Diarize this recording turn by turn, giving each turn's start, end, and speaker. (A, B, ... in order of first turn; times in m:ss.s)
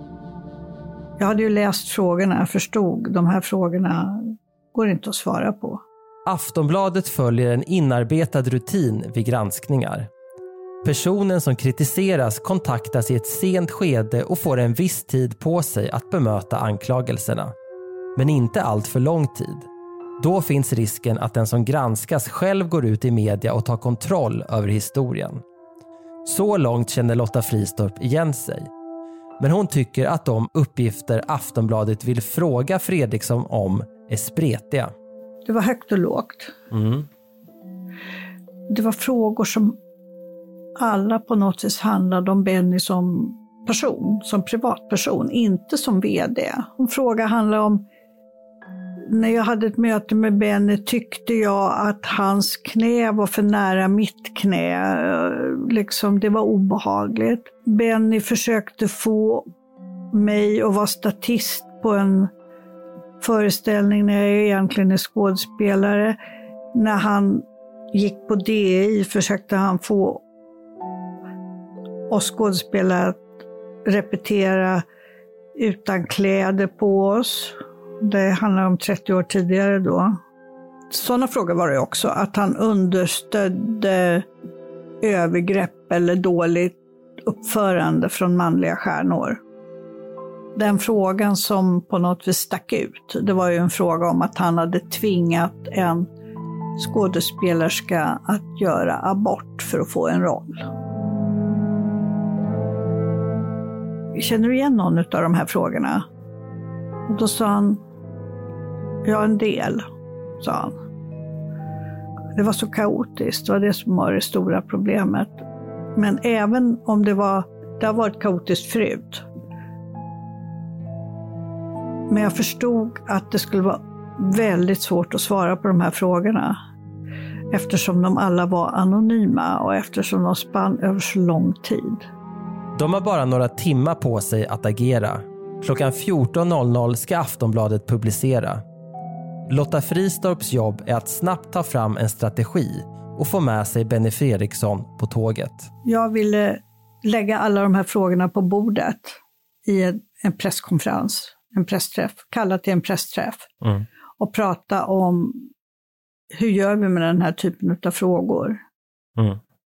0:01.2-0:05.8 A
0:06.3-0:10.1 B
0:10.8-0:17.5 B
0:18.2-0:19.7 B
0:20.2-0:25.4 B
0:26.2-0:28.7 B
0:29.4-0:34.9 B
0:35.5-0:36.6 A
0:36.7-0:37.0 B
0:38.7-0:39.8 A
0:40.8-0:47.8 A
0:49.1-0:59.5 A
1:00.1-1:02.3 A
1:03.2-1:06.2 A
1:06.8-1:10.2 A
1:12.1-1:13.3 A
1:13.9-1:14.8 A
1:15.6-1:20.2 A
1:20.9-1:24.2 A
1:25.0-1:29.4 A
1:30.6-1:36.1 A
1:36.8-1:40.7 A
1:44.2-1:46.1 A
1:47.1-1:47.8 A
1:49.0-1:49.9 A
1:50.4-1:50.8 A
1:52.4-1:55.4 A
1:56.0-1:59.2 A
2:02.1-2:06.6 A
2:07.5-2:12.0 A
2:12.8-2:18.6 B
2:19.5-2:25.7 B
2:25.9-2:33.5 A
2:34.2-2:35.5 A
2:36.3-2:38.6 A